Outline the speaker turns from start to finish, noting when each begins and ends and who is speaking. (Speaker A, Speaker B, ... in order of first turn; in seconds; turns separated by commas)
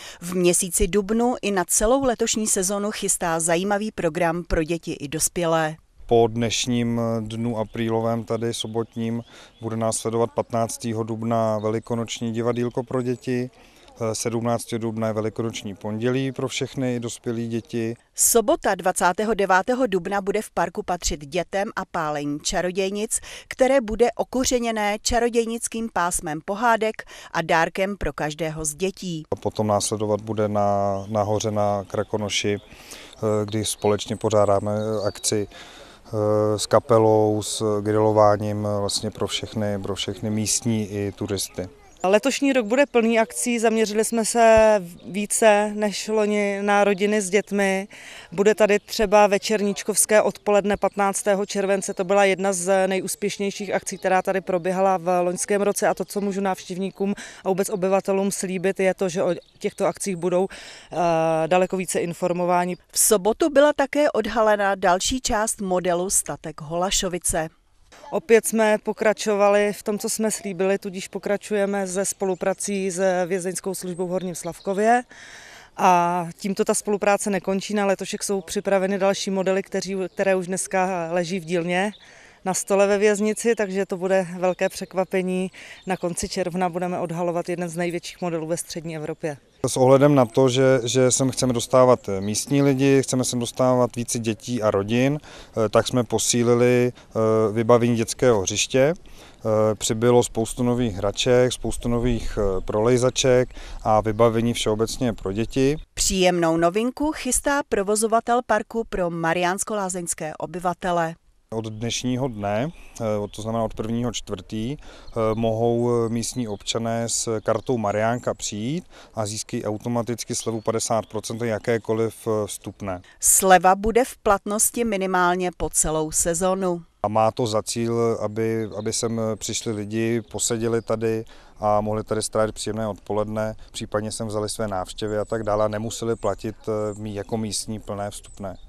Speaker A: 0.2-5.8, Speaker B: 6.1-18.0, Speaker A: 18.1-29.3, Speaker B: 29.3-32.6, Speaker B: 33.2-35.5, Speaker B: 36.1-41.7, Speaker C: 42.0-62.8, Speaker A: 62.9-67.5, Speaker C: 68.1-75.0, Speaker C: 75.8-89.4, Speaker B: 89.6-105.8, Speaker A: 106.0-111.2, Speaker B: 111.5-123.0, Speaker A: 123.2-126.8, Speaker B: 127.0-138.6